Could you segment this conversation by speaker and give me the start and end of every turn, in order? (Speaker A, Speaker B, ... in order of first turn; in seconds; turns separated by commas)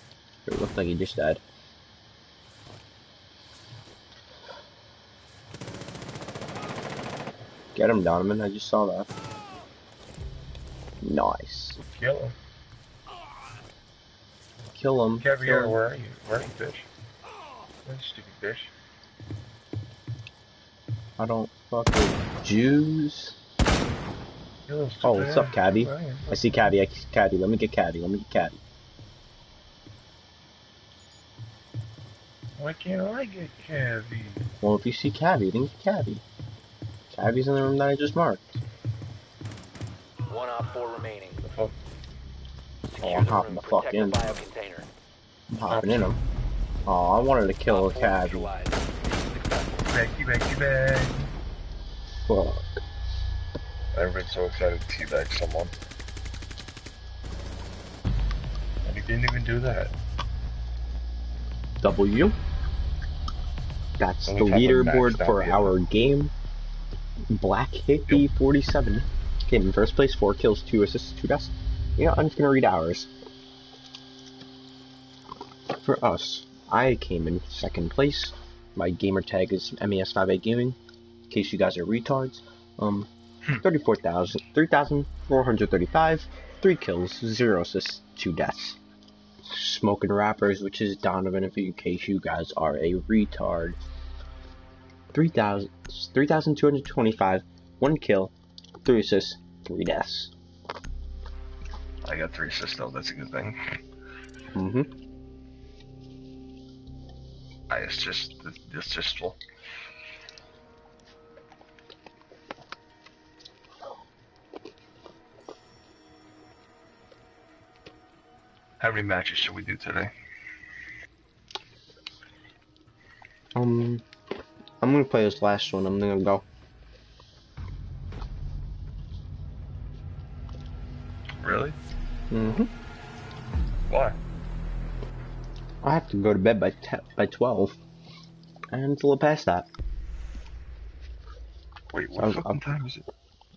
Speaker A: 0.5-1.4, Speaker A: 7.7-9.1, Speaker A: 11.0-11.8, Speaker B: 11.8-12.4, Speaker A: 14.7-15.8, Speaker B: 15.2-16.9, Speaker B: 17.9-18.7, Speaker A: 21.2-23.4, Speaker B: 24.7-26.7, Speaker A: 25.0-28.6, Speaker B: 32.6-34.5, Speaker A: 34.6-36.2, Speaker A: 37.1-38.5, Speaker C: 40.3-41.4, Speaker B: 41.4-41.8, Speaker C: 42.9-44.9, Speaker B: 43.0-43.6, Speaker A: 43.2-44.2, Speaker A: 45.5-46.2, Speaker B: 45.7-46.2, Speaker A: 46.9-48.5, Speaker C: 47.7-49.9, Speaker B: 49.9-51.3, Speaker A: 52.3-52.8, Speaker B: 53.9-55.7, Speaker B: 58.8-59.9, Speaker A: 61.8-62.4, Speaker A: 64.0-66.3, Speaker B: 64.2-65.8, Speaker A: 67.3-73.1, Speaker A: 75.8-80.8, Speaker A: 81.3-83.1, Speaker A: 83.6-88.8, Speaker A: 89.5-93.8, Speaker A: 95.1-100.3, Speaker B: 102.0-103.8, Speaker A: 104.5-104.9, Speaker B: 107.7-109.4, Speaker B: 118.8-120.1, Speaker A: 123.5-124.0, Speaker A: 124.8-126.4, Speaker B: 131.4-131.8, Speaker A: 132.3-132.7, Speaker B: 133.9-134.2, Speaker A: 135.8-137.8, Speaker A: 138.7-139.7, Speaker B: 141.9-143.1, Speaker A: 142.2-142.6